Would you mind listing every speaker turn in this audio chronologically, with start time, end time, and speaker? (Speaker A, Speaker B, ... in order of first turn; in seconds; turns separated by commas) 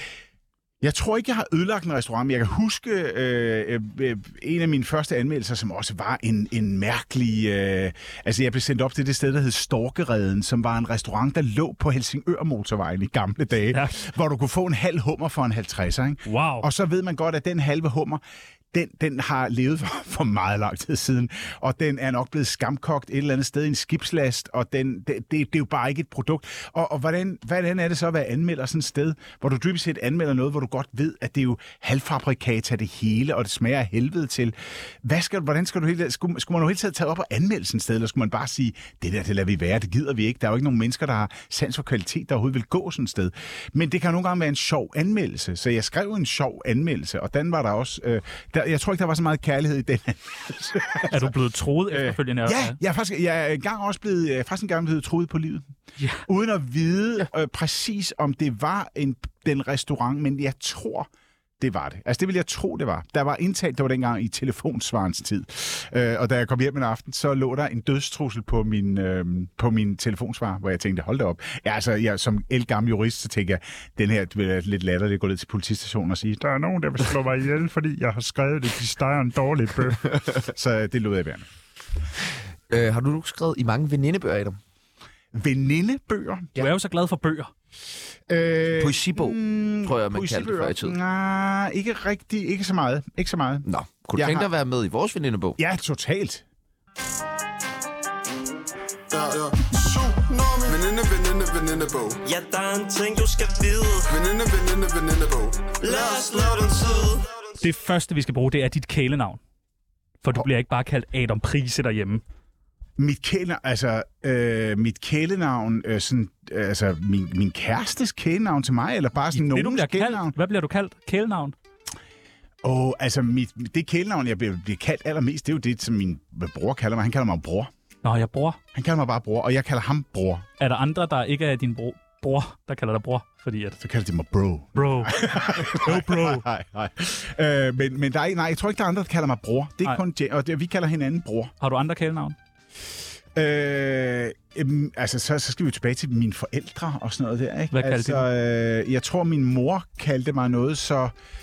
Speaker A: 0.8-18.2, Speaker B: 13.7-14.0, Speaker B: 16.3-16.7, Speaker A: 18.7-51.3, Speaker B: 51.1-52.8, Speaker A: 51.9-55.7, Speaker B: 56.0-56.2, Speaker A: 56.3-81.5, Speaker C: 82.7-84.6, Speaker A: 85.3-86.7, Speaker B: 86.6-87.5, Speaker A: 88.3-94.5, Speaker C: 88.8-91.0, Speaker C: 93.7-95.6, Speaker A: 95.6-96.5, Speaker D: 99.1-102.2, Speaker E: 102.2-104.1, Speaker D: 104.1-106.7, Speaker E: 105.8-107.3, Speaker B: 107.6-109.4, Speaker B: 110.2-112.2, Speaker A: 113.0-120.4, Speaker B: 119.3-121.5, Speaker A: 122.6-127.7, Speaker B: 128.0-128.6, Speaker A: 128.7-130.4, Speaker B: 130.6-133.8, Speaker A: 133.8-141.5, Speaker B: 134.8-136.5, Speaker B: 141.6-142.4, Speaker A: 143.3-151.1, Speaker B: 147.7-148.3